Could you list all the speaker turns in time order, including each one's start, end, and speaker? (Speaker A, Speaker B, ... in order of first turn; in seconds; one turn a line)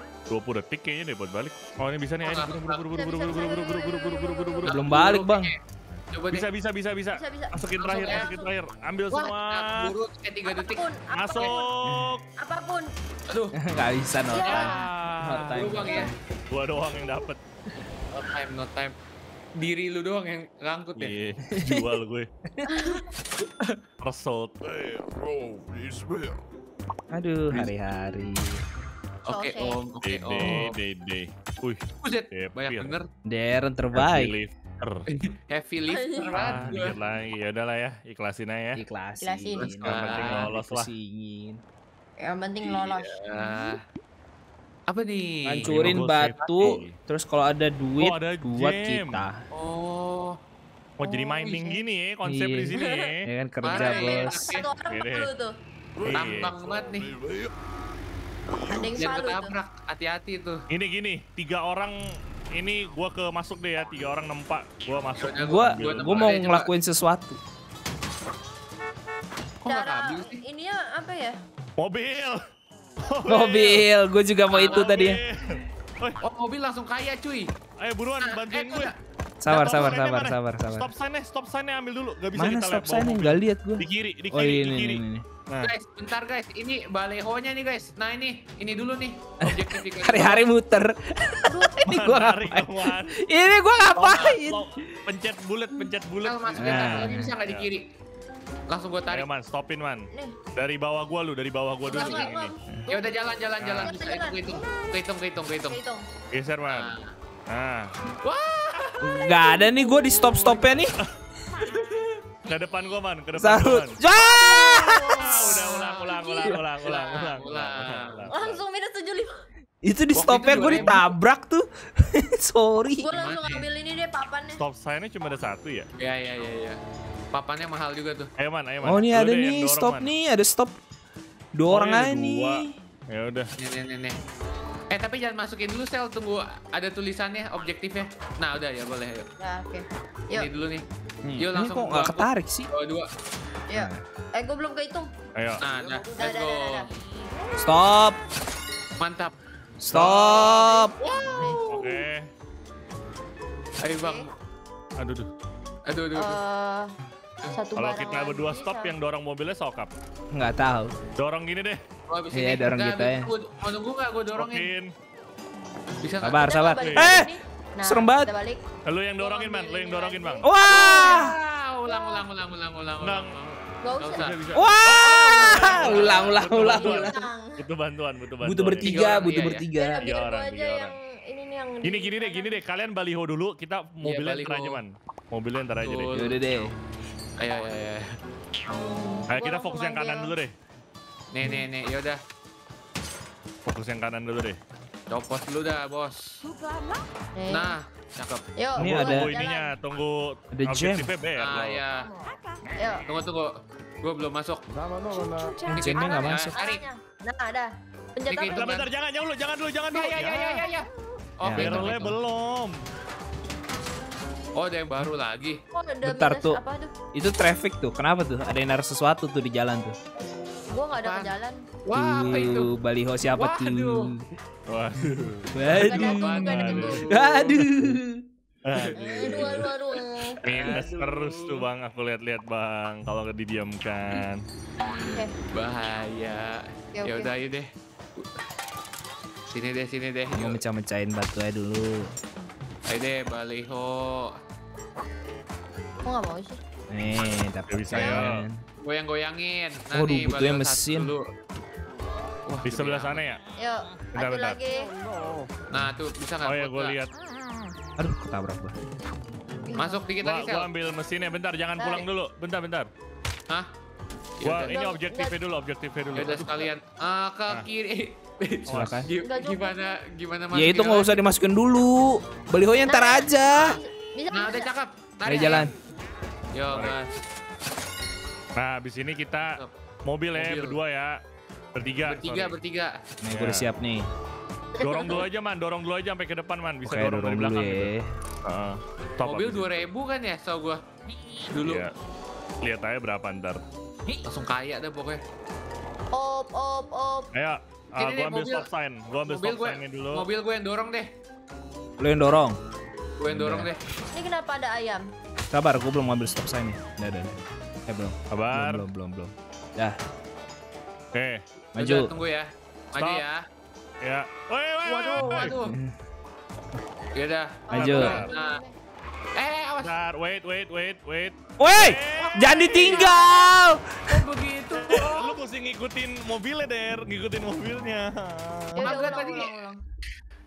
Speaker A: 0.3-4.8
Speaker B: 2.2-2.8
Speaker C: 2.9-4.7
Speaker B: 4.7-5.6
Speaker D: 4.7-5.5
Speaker B: 6.1-6.5
Speaker A: 6.3-9.9
Speaker C: 7.1-8.5
Speaker B: 7.8-8.3
Speaker B: 9.1-11.6
Speaker C: 10.5-11.7
Speaker A: 11.1-12.2
Speaker D: 11.8-12.1
Speaker C: 12.4-12.9
Speaker B: 13.3-13.6
Speaker D: 13.6-16.1
Speaker C: 14.3-14.8
Speaker B: 14.4-16.1
Speaker A: 14.7-15.6
Speaker C: 15.8-16.1
Speaker A: 16.5-17.4
Speaker B: 18.1-18.9
Speaker B: 19.6-21.1
Speaker A: 20.9-22.3
Speaker D: 21.5-21.9
Speaker C: 22.7-23.1
Speaker A: 24.0-24.6
Speaker D: 27.1-28.6
Speaker B: 29.2-30.8
Speaker C: 29.3-29.8
Speaker A: 30.0-32.9
Speaker B: 32.0-33.1
Speaker D: 33.3-34.3
Speaker A: 33.9-35.0
Speaker B: 35.1-36.9
Speaker C: 35.9-36.3
Speaker A: 36.4-38.8
Speaker D: 38.8-41.6
Speaker C: 39.2-39.8
Speaker B: 39.6-40.5
Speaker A: 39.9-40.9
Speaker C: 42.2-43.8
Speaker B: 42.6-43.8
Speaker B: 44.9-45.9
Speaker D: 45.4-49.4
Speaker A: 45.6-47.0
Speaker B: 46.5-46.7
Speaker A: 48.0-49.2
Speaker B: 49.5-50.4
Speaker A: 51.0-53.3
Speaker B: 51.0-51.8
Speaker D: 52.2-52.7
Speaker C: 52.8-53.1
Speaker D: 53.2-54.5
Speaker B: 53.6-54.7
Speaker C: 53.7-55.5
Speaker A: 54.9-55.3
Speaker A: 56.0-56.6
Speaker B: 56.1-57.1
Speaker C: 58.6-59.5
Speaker B: 58.9-60.6
Speaker A: 60.7-62.0
Speaker A: 62.5-66.3
Speaker B: 65.2-66.7
Speaker D: 65.4-67.4
Speaker B: 69.6-70.4
Speaker C: 69.7-71.4
Speaker A: 71.8-72.4
Speaker A: 73.0-73.8
Speaker D: 73.3-75.2
Speaker A: 74.5-76.2
Speaker B: 74.6-75.0
Speaker B: 76.2-77.5
Speaker A: 77.8-78.9
Speaker B: 78.2-78.9
Speaker D: 79.4-80.9
Speaker A: 79.5-85.7
Speaker D: 82.3-85.2
Speaker B: 85.6-90.5
Speaker D: 89.4-95.0
Speaker C: 91.5-91.8
Speaker A: 91.8-93.2
Speaker A: 93.9-97.7
Speaker B: 94.1-94.4
Speaker B: 96.2-97.8
Speaker D: 96.5-97.3
Speaker B: 98.7-99.2
Speaker A: 99.1-102.5
Speaker C: 101.9-103.0
Speaker B: 101.9-102.3
Speaker B: 102.9-105.8
Speaker A: 103.6-104.0
Speaker C: 103.8-104.6
Speaker C: 105.7-106.0
Speaker A: 106.3-106.9
Speaker B: 106.7-107.1
Speaker A: 107.5-107.9
Speaker B: 108.2-110.5
Speaker D: 109.0-111.0
Speaker B: 111.6-112.2
Speaker A: 112.5-118.6
Speaker D: 113.3-115.6
Speaker C: 114.4-116.5
Speaker B: 115.4-116.2
Speaker B: 116.8-118.3
Speaker C: 118.3-119.4
Speaker D: 119.8-123.1
Speaker B: 120.1-121.1
Speaker A: 120.5-121.0
Speaker C: 123.0-124.6
Speaker B: 123.1-123.7
Speaker A: 124.5-125.9
Speaker B: 126.0-126.8
Speaker B: 127.3-128.3
Speaker A: 128.4-130.1
Speaker D: 128.8-130.8
Speaker D: 131.5-132.7
Speaker A: 131.7-133.5
Speaker B: 133.6-134.2
Speaker B: 134.9-139.3
Speaker C: 139.4-140.5
Speaker B: 140.3-140.8
Speaker D: 141.3-142.7
Speaker B: 141.4-143.1
Speaker C: 143.7-145.1
Speaker D: 143.7-144.0
Speaker A: 145.3-145.6
Speaker B: 145.6-146.9
Speaker C: 146.2-146.9
Speaker D: 147.6-148.2
Speaker B: 149.0-149.3
Speaker D: 149.8-150.9
Speaker A: 149.9-150.5
Speaker B: 149.9-152.0
Speaker C: 150.5-151.6
Speaker A: 151.7-152.3
Speaker B: 153.8-154.3
Speaker C: 154.0-154.3
Speaker A: 155.0-155.3
Speaker B: 155.9-156.4
Speaker C: 156.1-156.9
Speaker C: 157.5-158.9
Speaker A: 157.7-159.9
Speaker D: 160.3-160.9
Speaker A: 161.2-161.8
Speaker B: 162.1-164.7
Speaker D: 162.3-163.3
Speaker A: 164.3-164.9
Speaker B: 166.0-166.5
Speaker D: 166.2-168.3
Speaker C: 166.4-168.6
Speaker A: 166.7-167.2
Speaker A: 168.8-170.5
Speaker C: 169.2-171.3
Speaker D: 170.4-171.3
Speaker B: 170.7-174.4
Speaker C: 171.8-172.2
Speaker A: 173.0-173.3
Speaker C: 173.8-174.3
Speaker A: 174.1-179.2
Speaker D: 174.5-177.2
Speaker C: 175.1-177.6
Speaker B: 175.4-176.3
Speaker D: 178.4-180.0
Speaker B: 178.8-179.7
Speaker C: 179.7-182.6
Speaker A: 180.0-180.9
Speaker A: 181.8-186.1
Speaker B: 184.0-184.8
Speaker B: 185.8-186.6
Speaker D: 186.1-186.7
Speaker B: 187.4-188.1
Speaker C: 188.7-190.3
Speaker A: 189.3-190.5
Speaker B: 191.3-192.2
Speaker A: 193.6-194.6
Speaker B: 195.1-196.4
Speaker C: 197.3-197.8
Speaker B: 197.5-198.4
Speaker C: 198.6-199.7
Speaker D: 198.8-199.3
Speaker A: 198.8-201.8
Speaker D: 200.5-201.1
Speaker B: 201.4-202.1
Speaker C: 202.8-203.1
Speaker B: 203.1-204.6
Speaker C: 205.2-208.7
Speaker D: 205.7-206.6
Speaker B: 205.7-206.8
Speaker B: 208.3-208.9
Speaker A: 208.5-210.6
Speaker B: 209.9-212.2
Speaker D: 211.4-212.0
Speaker A: 211.5-212.8
Speaker B: 214.5-215.6
Speaker C: 215.7-216.9
Speaker D: 216.0-216.6
Speaker D: 217.1-220.0
Speaker C: 220.7-221.7
Speaker B: 221.0-222.7
Speaker D: 221.9-224.2
Speaker B: 223.3-224.1
Speaker A: 224.7-227.5
Speaker D: 225.5-228.2
Speaker C: 225.7-227.2
Speaker B: 225.7-227.1
Speaker A: 228.6-229.7
Speaker B: 228.8-229.7
Speaker C: 228.9-230.4
Speaker B: 230.4-231.7
Speaker A: 230.4-234.4
Speaker B: 234.9-238.3
Speaker C: 235.0-235.3
Speaker C: 236.9-237.3
Speaker B: 239.5-240.6
Speaker D: 240.3-242.1
Speaker B: 242.9-244.3
Speaker C: 246.0-246.6
Speaker D: 246.9-248.6
Speaker A: 247.7-248.4
Speaker B: 248.8-251.2
Speaker D: 249.9-251.1
Speaker B: 252.4-253.2
Speaker A: 252.6-253.4
Speaker C: 253.6-254.9
Speaker A: 254.1-254.6
Speaker B: 255.7-257.0
Speaker A: 256.4-257.1
Speaker D: 258.0-258.7
Speaker C: 259.7-260.0
Speaker B: 259.7-260.7
Speaker A: 260.2-262.9
Speaker C: 261.8-262.1
Speaker B: 264.4-264.8
Speaker A: 264.4-266.6
Speaker C: 264.6-265.4
Speaker B: 266.1-271.2
Speaker A: 268.7-269.1
Speaker D: 268.7-269.1
Speaker C: 269.2-269.9
Speaker D: 270.5-273.8
Speaker C: 272.9-274.7
Speaker B: 273.5-273.8
Speaker B: 274.3-275.7
Speaker D: 275.2-275.7
Speaker B: 276.5-277.2
Speaker A: 278.6-281.2
Speaker B: 280.4-280.8
Speaker A: 281.7-282.5
Speaker B: 282.1-282.9
Speaker D: 283.2-284.1
Speaker A: 283.3-283.7
Speaker A: 284.8-287.9
Speaker D: 286.8-288.1
Speaker A: 288.4-289.9
Speaker B: 289.2-290.8
Speaker B: 291.5-291.8
Speaker A: 291.6-291.9
Speaker A: 292.6-293.6
Speaker B: 294.2-295.2
Speaker C: 296.1-297.3
Speaker A: 297.3-300.2
Speaker B: 298.0-298.7
Speaker B: 299.2-301.1
Speaker D: 302.0-302.6
Speaker B: 303.2-303.8
Speaker D: 303.3-303.7
Speaker C: 304.1-305.0
Speaker D: 305.5-310.0
Speaker A: 308.3-308.9
Speaker A: 311.1-311.4
Speaker D: 311.7-312.1
Speaker B: 311.8-313.4
Speaker A: 313.0-313.2
Speaker A: 314.0-315.5
Speaker B: 314.9-315.8
Speaker D: 315.7-315.9
Speaker B: 317.1-318.6
Speaker C: 317.7-318.7
Speaker A: 317.8-318.3
Speaker D: 317.8-318.2
Speaker B: 319.4-319.9
Speaker A: 319.8-323.1
Speaker D: 321.6-324.2
Speaker B: 322.2-323.2
Speaker C: 323.0-323.4
Speaker B: 324.1-325.4
Speaker A: 324.8-328.9
Speaker C: 328.8-329.8
Speaker B: 328.8-329.5